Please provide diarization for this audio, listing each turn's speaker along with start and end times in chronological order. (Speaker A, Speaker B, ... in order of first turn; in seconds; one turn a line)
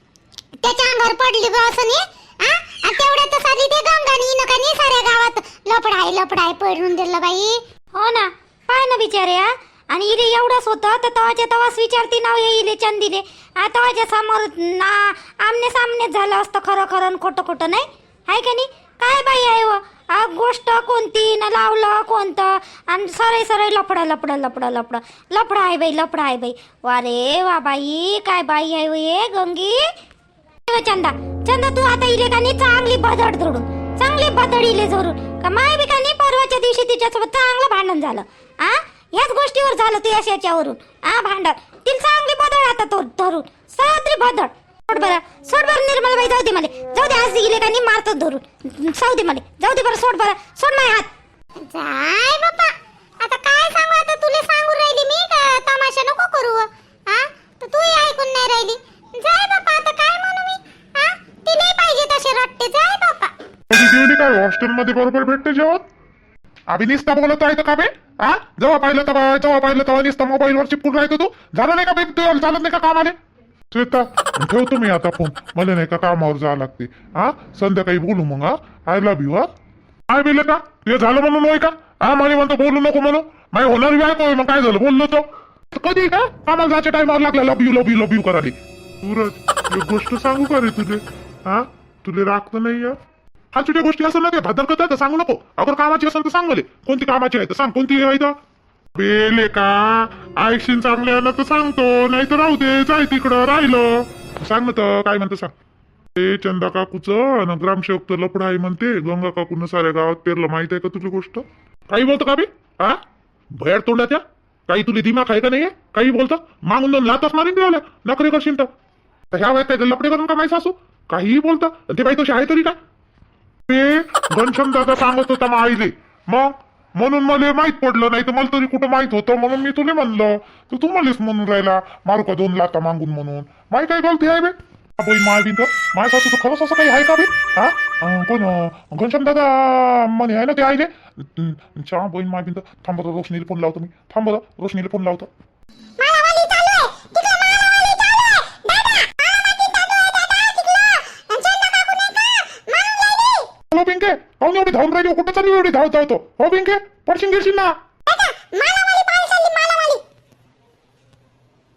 Speaker A: 0.6-7.6
Speaker B: 8.0-29.8
Speaker B: 30.6-51.1
Speaker A: 51.6-63.3
Speaker C: 63.7-65.8
Speaker C: 66.7-73.2
Speaker C: 73.7-79.5
Speaker C: 80.1-93.0
Speaker C: 93.5-98.3
Speaker C: 98.9-105.5
Speaker C: 106.1-113.0
Speaker C: 113.5-118.7
Speaker C: 119.3-122.8
Speaker C: 123.7-145.3
Speaker A: 146.0-153.5
Speaker C: 153.7-157.8
Speaker A: 158.1-160.0